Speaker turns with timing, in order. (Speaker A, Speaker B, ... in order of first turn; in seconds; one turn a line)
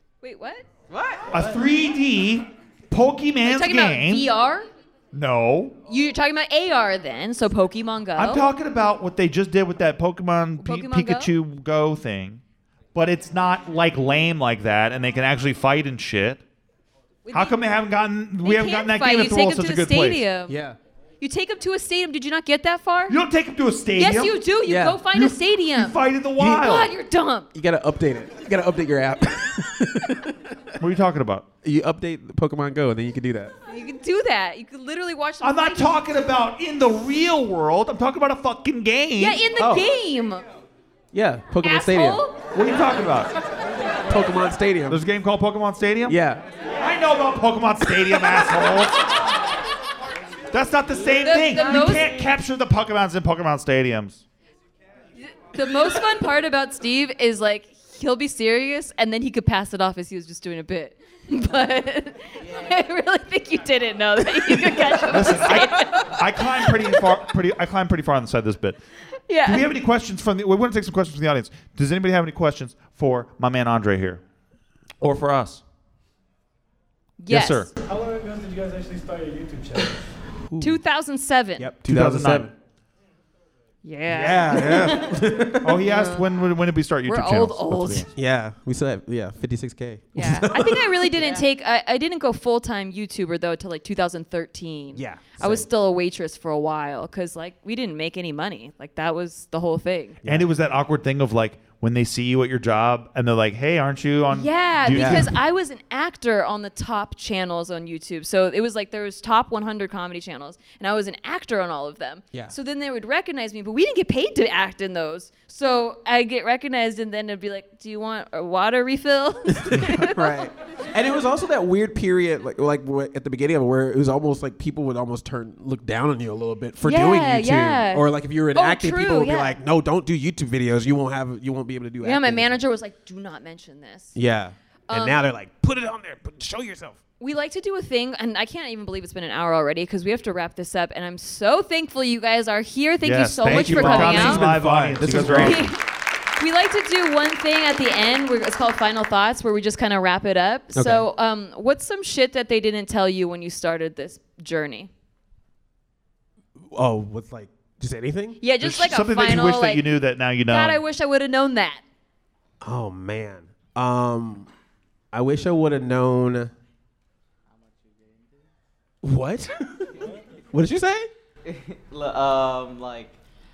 Speaker A: 0.2-0.7
Speaker B: 0.9-1.4
Speaker C: 1.3-4.3
Speaker A: 3.5-4.7
Speaker C: 5.1-5.8
Speaker A: 5.9-8.4
Speaker C: 8.2-12.4
Speaker A: 10.6-11.3
Speaker C: 12.9-16.4
Speaker A: 17.2-17.6
Speaker C: 17.3-20.2
Speaker A: 18.4-20.6
Speaker D: 20.5-20.8
Speaker A: 21.2-23.2
Speaker C: 23.1-24.4
Speaker A: 24.0-27.5
Speaker D: 24.6-25.0
Speaker C: 25.1-26.9
Speaker D: 27.5-30.7
Speaker C: 30.8-31.4
Speaker D: 31.6-33.5
Speaker A: 33.7-36.1
Speaker C: 35.4-39.4
Speaker A: 39.2-40.4
Speaker D: 39.6-39.9
Speaker D: 41.1-42.2
Speaker A: 41.6-42.4
Speaker C: 42.5-43.3
Speaker D: 44.1-45.0
Speaker C: 44.9-46.2
Speaker D: 46.1-46.5
Speaker C: 46.8-49.0
Speaker C: 50.5-54.2
Speaker A: 51.2-52.1
Speaker A: 55.5-67.0
Speaker C: 65.1-68.8
Speaker A: 69.3-69.7
Speaker C: 69.5-74.2
Speaker C: 75.0-75.6
Speaker A: 77.2-77.7
Speaker C: 77.3-77.7
Speaker E: 77.8-80.0
Speaker D: 80.5-80.8
Speaker A: 80.6-81.7
Speaker D: 81.6-82.5
Speaker C: 81.8-82.5
Speaker A: 83.8-85.2
Speaker D: 84.1-85.8
Speaker C: 85.6-88.1
Speaker A: 85.8-86.3
Speaker A: 87.1-88.1
Speaker D: 88.2-91.4
Speaker A: 90.2-100.2
Speaker D: 95.0-95.7
Speaker D: 100.2-100.5
Speaker C: 100.3-105.4
Speaker A: 104.3-120.5
Speaker D: 104.9-105.3
Speaker D: 119.5-132.5
Speaker A: 126.8-129.6
Speaker A: 132.0-134.2
Speaker D: 134.2-137.0
Speaker A: 134.9-135.2
Speaker A: 137.2-144.5
Speaker C: 143.0-145.7
Speaker D: 143.5-145.7
Speaker A: 145.0-145.8
Speaker A: 146.4-154.9
Speaker D: 150.8-151.1
Speaker D: 156.7-158.4
Speaker A: 158.4-159.8
Speaker C: 158.6-160.8
Speaker A: 160.4-161.8
Speaker D: 162.6-164.5
Speaker D: 165.1-166.5
Speaker D: 169.0-170.0
Speaker D: 170.5-171.1
Speaker B: 171.4-173.2